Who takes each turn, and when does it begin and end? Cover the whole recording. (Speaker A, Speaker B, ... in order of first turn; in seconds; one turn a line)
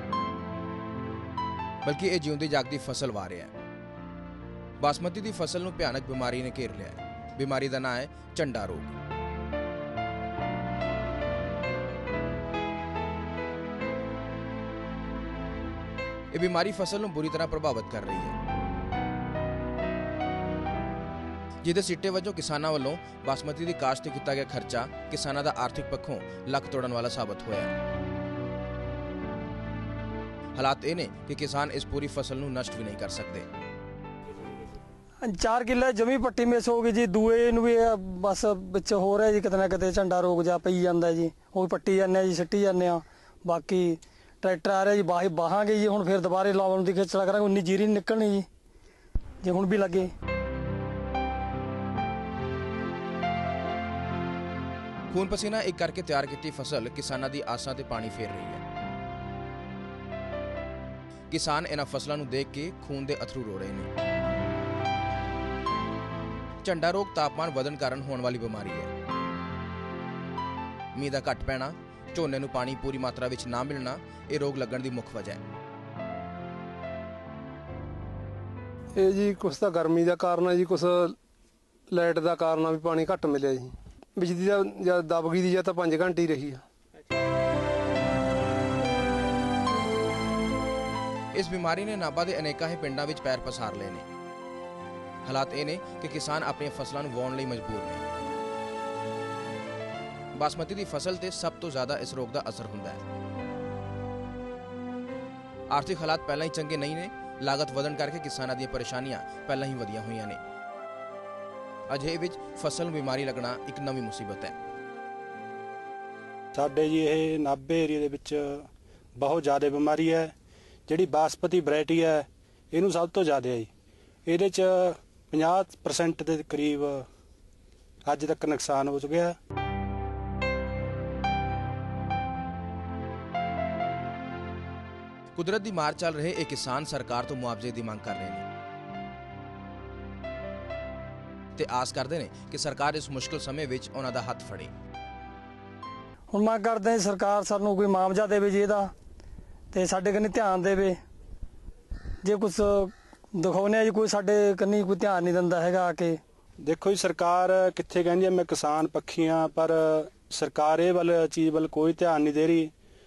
Speaker A: 1.8-3.5
Speaker A: 4.8-8.9
Speaker A: 16.3-18.4
Speaker A: 21.6-27.7
Speaker A: 30.6-33.5
Speaker B: 35.2-48.5
Speaker B: 49.4-50.1
Speaker A: 55.1-58.6
Speaker A: 61.3-63.9
Speaker A: 66.6-68.9
Speaker A: 70.9-75.4
Speaker C: 79.0-81.2
Speaker C: 81.9-86.6
Speaker A: 91.3-94.0
Speaker A: 95.2-98.0
Speaker A: 100.3-103.0
Speaker A: 105.7-110.4
Speaker A: 111.9-114.5
Speaker D: 116.5-120.3
Speaker D: 120.9-123.7
Speaker D: 124.3-127.1
Speaker D: 128.1-129.4
Speaker A: 135.3-138.4
Speaker A: 141.6-144.7
Speaker B: 146.3-148.9
Speaker B: 149.7-151.0
Speaker B: 152.2-156.2
Speaker D: 156.6-162.7